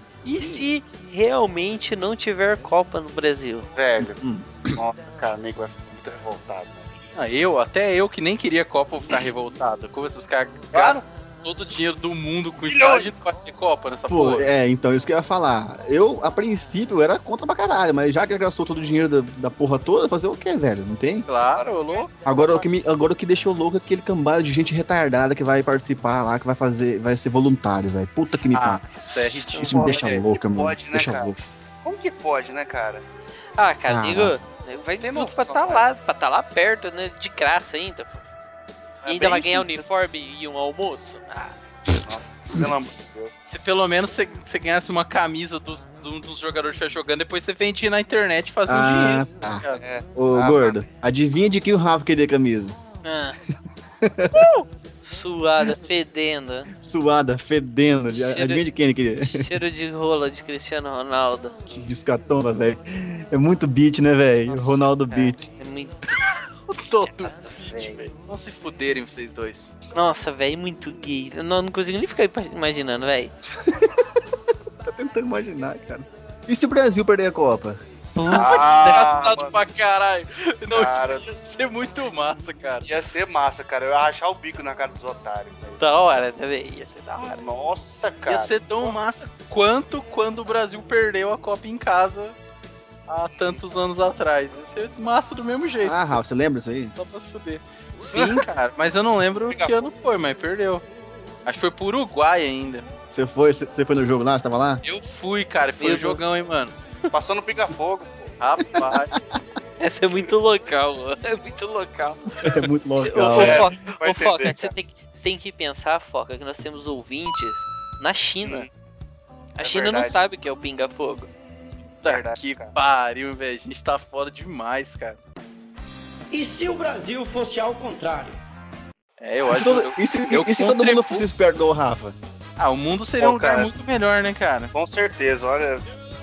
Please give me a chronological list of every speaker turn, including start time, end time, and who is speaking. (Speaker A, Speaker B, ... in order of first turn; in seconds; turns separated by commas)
Speaker A: 0.2-3.7, Speaker B: 0.4-0.7, Speaker B: 3.8-4.2, Speaker C: 4.0-4.8, Speaker B: 4.7-7.0, Speaker D: 7.2-14.5, Speaker B: 10.7-11.0, Speaker B: 12.6-13.2, Speaker C: 14.1-21.3, Speaker D: 21.3-22.2, Speaker C: 22.2-31.4, Speaker D: 28.5-30.2, Speaker A: 29.5-29.8, Speaker B: 29.7-33.0, Speaker A: 33.6-38.2, Speaker C: 33.9-34.4, Speaker B: 35.0-35.9, Speaker D: 39.0-39.8, Speaker A: 39.0-41.5, Speaker B: 42.0-43.3, Speaker D: 43.5-49.8, Speaker C: 48.7-52.8, Speaker B: 49.7-50.8, Speaker A: 53.0-53.4, Speaker C: 54.0-54.3, Speaker A: 54.3-56.7, Speaker C: 56.8-59.6, Speaker A: 58.1-58.6, Speaker A: 59.2-61.6, Speaker C: 61.7-65.5, Speaker A: 64.5-66.1, Speaker D: 66.3-69.7, Speaker A: 67.0-68.0, Speaker A: 69.9-73.3, Speaker C: 73.6-74.2, Speaker C: 74.8-77.8, Speaker A: 78.2-79.2, Speaker B: 78.3-79.6, Speaker D: 78.3-82.8, Speaker B: 80.7-81.4, Speaker B: 82.8-85.8, Speaker A: 85.8-87.4, Speaker B: 87.2-89.0, Speaker D: 88.2-92.4, Speaker D: 93.1-96.2, Speaker C: 95.8-96.9, Speaker D: 97.0-100.8, Speaker B: 98.1-98.5, Speaker B: 99.5-99.9, Speaker D: 101.5-102.8, Speaker C: 103.1-104.8, Speaker D: 104.8-106.7, Speaker A: 105.8-106.2, Speaker B: 107.1-108.4, Speaker D: 108.4-109.2, Speaker C: 108.7-109.2, Speaker A: 109.8-118.7, Speaker C: 112.4-113.7, Speaker B: 113.3-114.7, Speaker B: 118.4-118.7, Speaker A: 119.6-121.3, Speaker B: 119.6-120.3, Speaker D: 122.0-125.2, Speaker B: 122.0-122.8, Speaker E: 126.3-128.4, Speaker D: 129.2-131.2, Speaker C: 129.4-132.2, Speaker D: 132.6-134.7, Speaker B: 133.2-133.7, Speaker B: 134.7-135.9